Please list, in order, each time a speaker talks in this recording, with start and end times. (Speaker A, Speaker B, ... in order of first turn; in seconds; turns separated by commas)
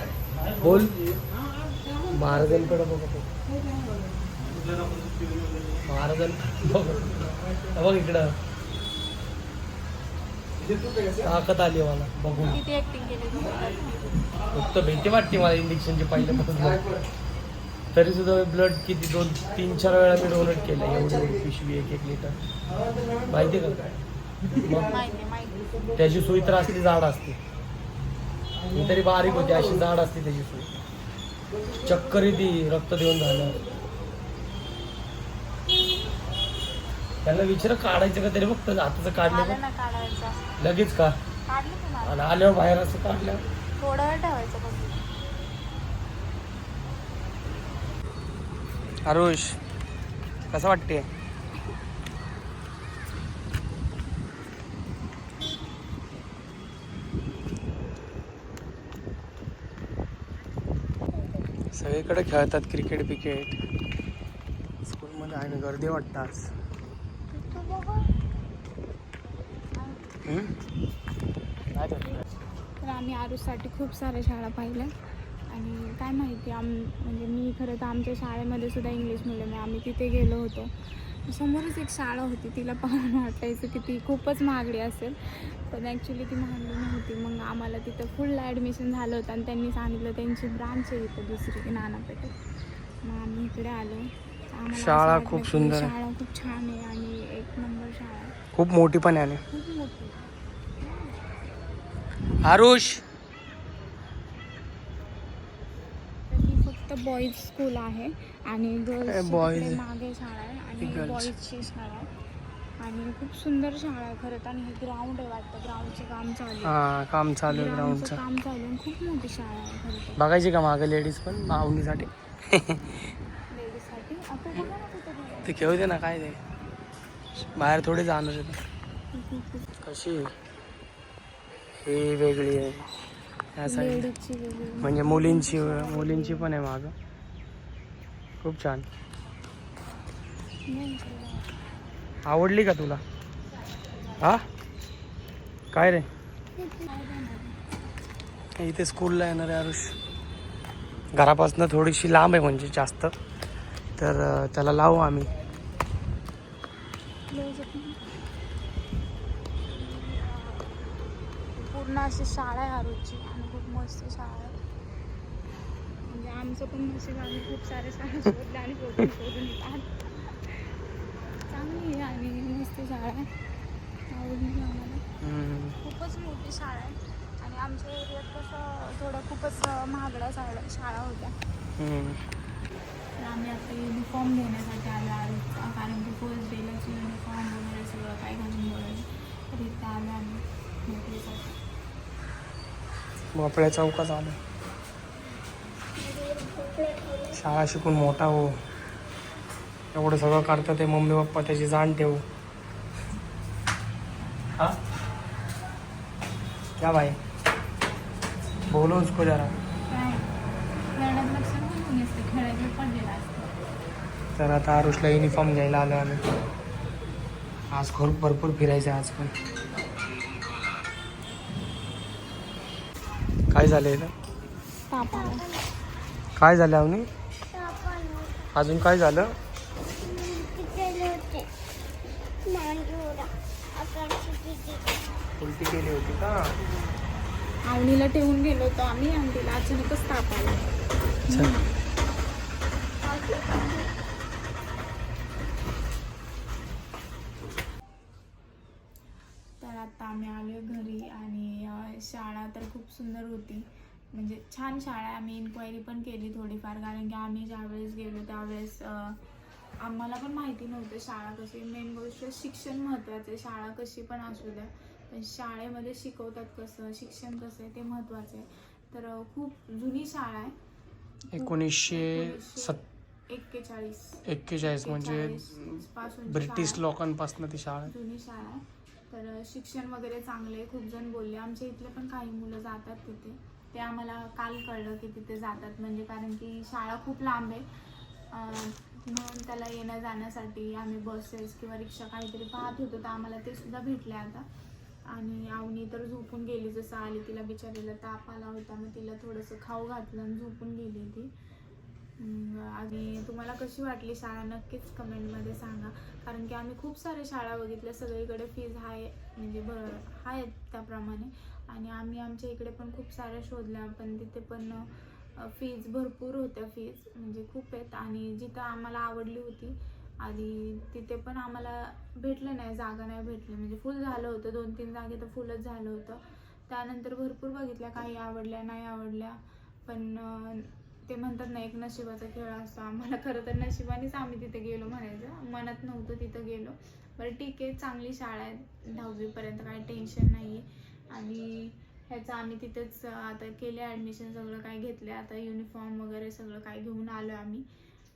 Speaker A: 0.5-1.0, Speaker A: 2.1-3.3, Speaker A: 5.8-8.3, Speaker A: 11.2-12.6, Speaker B: 12.4-14.2, Speaker A: 14.5-16.9, Speaker A: 17.9-22.4, Speaker A: 23.3-23.8, Speaker A: 24.5-24.9, Speaker B: 24.6-25.7, Speaker A: 26.0-27.4, Speaker A: 28.7-30.7, Speaker A: 31.8-33.6, Speaker A: 37.2-39.6, Speaker B: 39.2-40.5, Speaker A: 40.6-41.1, Speaker B: 41.5-42.3, Speaker A: 42.0-43.4, Speaker B: 43.8-45.0, Speaker A: 49.1-49.6, Speaker A: 50.5-51.1, Speaker C: 61.1-61.4, Speaker A: 61.7-63.6, Speaker A: 64.9-66.5, Speaker C: 67.4-68.1, Speaker B: 69.8-70.0, Speaker A: 70.3-70.5, Speaker A: 71.7-72.2, Speaker B: 72.8-74.9, Speaker B: 75.5-92.3, Speaker B: 93.0-98.3, Speaker A: 94.7-95.9, Speaker A: 98.5-99.4, Speaker B: 99.5-100.2, Speaker B: 100.8-101.2, Speaker A: 102.4-103.0, Speaker B: 106.3-112.1, Speaker A: 109.1-109.8, Speaker A: 110.8-111.3, Speaker B: 112.8-116.8, Speaker A: 116.6-118.2, Speaker B: 117.5-120.2, Speaker A: 120.2-122.8, Speaker B: 123.5-125.8, Speaker A: 125.5-126.4, Speaker A: 127.5-128.6, Speaker B: 129.1-129.7, Speaker A: 129.8-130.3, Speaker A: 131.9-132.8, Speaker A: 133.6-134.1, Speaker B: 133.6-136.5, Speaker A: 134.8-136.9, Speaker A: 138.4-138.9, Speaker B: 140.7-141.5, Speaker A: 142.3-143.0, Speaker A: 145.7-146.1, Speaker B: 146.6-147.6, Speaker A: 148.6-149.9, Speaker A: 151.2-153.1, Speaker A: 154.0-155.3, Speaker B: 157.3-158.0, Speaker B: 159.7-160.7, Speaker B: 161.6-164.6, Speaker B: 166.1-170.7, Speaker B: 171.5-173.3, Speaker B: 174.1-175.0, Speaker A: 175.2-175.8, Speaker B: 175.8-181.3, Speaker A: 181.8-182.2, Speaker B: 183.2-191.6, Speaker A: 193.3-194.4, Speaker C: 196.0-197.4, Speaker A: 197.3-198.5, Speaker A: 199.9-202.2, Speaker A: 206.8-207.2, Speaker A: 208.7-209.5, Speaker B: 209.9-210.3, Speaker B: 210.9-213.5, Speaker A: 214.4-216.2, Speaker A: 217.7-219.3, Speaker A: 223.5-224.1, Speaker B: 224.9-225.5, Speaker C: 225.1-225.7, Speaker A: 226.4-227.1, Speaker C: 227.5-228.5, Speaker A: 228.5-229.3, Speaker C: 230.0-231.5, Speaker C: 232.4-235.1, Speaker A: 235.4-236.5, Speaker B: 237.7-240.7, Speaker B: 241.3-241.7, Speaker B: 243.1-243.5, Speaker C: 243.2-243.7, Speaker B: 249.6-259.2, Speaker B: 259.8-270.6, Speaker B: 271.3-276.9, Speaker A: 271.3-272.8, Speaker A: 274.3-277.9, Speaker B: 277.9-287.6, Speaker B: 288.3-294.4, Speaker B: 295.1-301.3, Speaker B: 302.2-347.6